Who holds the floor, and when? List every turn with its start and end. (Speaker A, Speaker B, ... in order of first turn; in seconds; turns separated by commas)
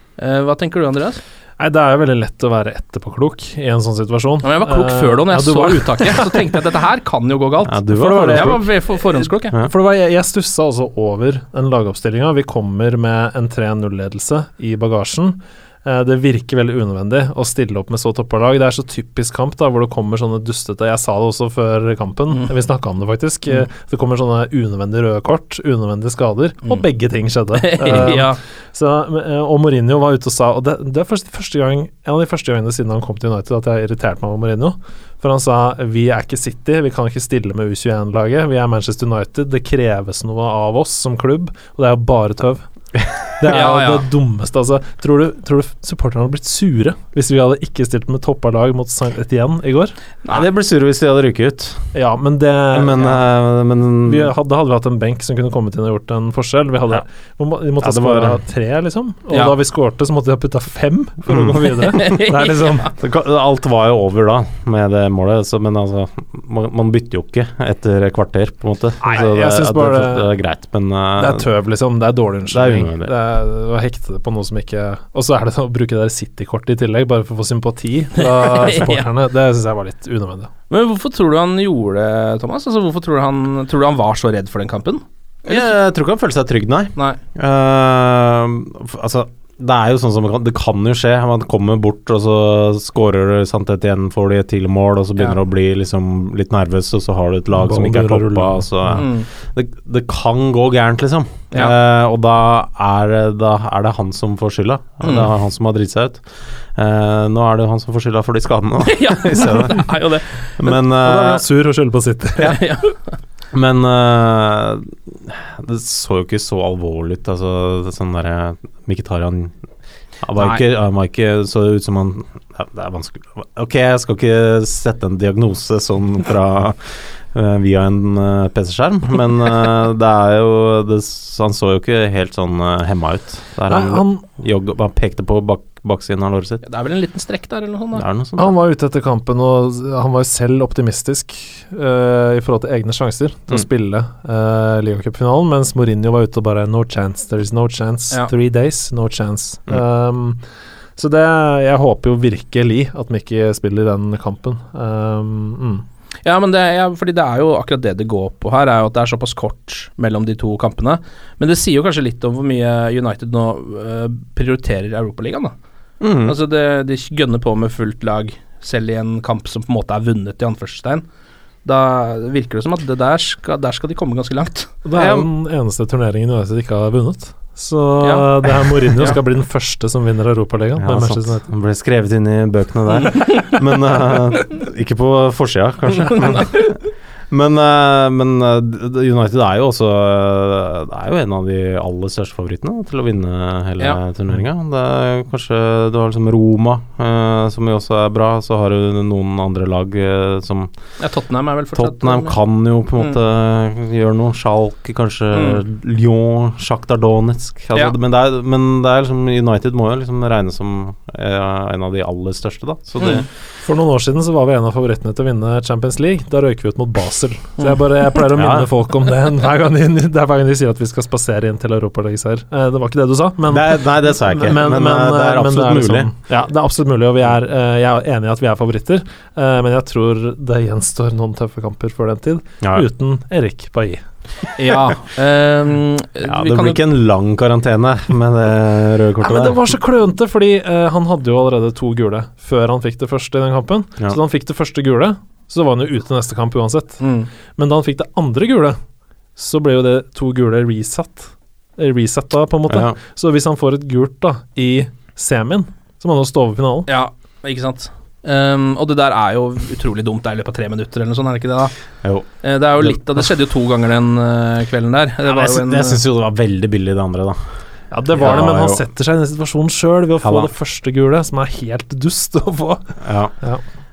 Speaker A: 0.2-1.2, Speaker B: 1.6-6.3, Speaker A: 4.4-9.5, Speaker C: 7.7-8.7, Speaker B: 8.0-42.6, Speaker A: 27.6-28.4, Speaker C: 27.9-28.3, Speaker B: 43.4-50.0, Speaker A: 43.5-44.1, Speaker C: 50.3-52.0, Speaker B: 51.9-53.1, Speaker C: 52.7-54.3, Speaker B: 54.0-62.9, Speaker C: 57.8-58.4, Speaker C: 61.3-62.2, Speaker A: 62.0-62.8, Speaker C: 62.9-71.5, Speaker B: 69.0-70.3, Speaker B: 71.2-80.5, Speaker C: 72.5-73.1, Speaker A: 78.2-79.1, Speaker A: 80.7-85.7, Speaker C: 85.5-110.0, Speaker B: 97.6-99.0, Speaker A: 99.0-99.3, Speaker A: 105.0-105.3, Speaker A: 108.8-110.5, Speaker C: 110.6-111.4, Speaker B: 110.9-112.6, Speaker A: 112.4-113.0, Speaker C: 113.5-119.6, Speaker C: 120.2-136.6, Speaker B: 133.7-134.3, Speaker A: 136.6-138.1, Speaker C: 137.9-138.5, Speaker B: 138.4-150.4, Speaker B: 151.0-155.8, Speaker A: 156.2-165.5, Speaker C: 166.0-166.4, Speaker A: 166.2-171.0, Speaker A: 171.6-174.7, Speaker B: 174.8-181.4, Speaker C: 174.9-175.3, Speaker A: 178.0-179.2, Speaker C: 180.8-200.7, Speaker A: 183.0-183.6, Speaker A: 186.0-186.7, Speaker A: 201.0-202.4, Speaker C: 201.8-213.3, Speaker A: 205.3-205.6, Speaker A: 213.0-213.3, Speaker B: 213.6-234.0, Speaker A: 217.6-218.0, Speaker C: 218.3-218.7, Speaker C: 223.5-226.1, Speaker A: 234.6-236.8, Speaker C: 236.2-239.6, Speaker B: 239.2-247.0, Speaker A: 247.0-247.3, Speaker B: 247.6-248.8, Speaker B: 249.4-256.9, Speaker C: 252.7-253.0, Speaker A: 256.9-261.7, Speaker A: 262.3-266.0, Speaker C: 265.2-267.6, Speaker B: 267.9-273.6, Speaker C: 268.1-268.8, Speaker C: 270.2-270.5, Speaker C: 273.0-273.4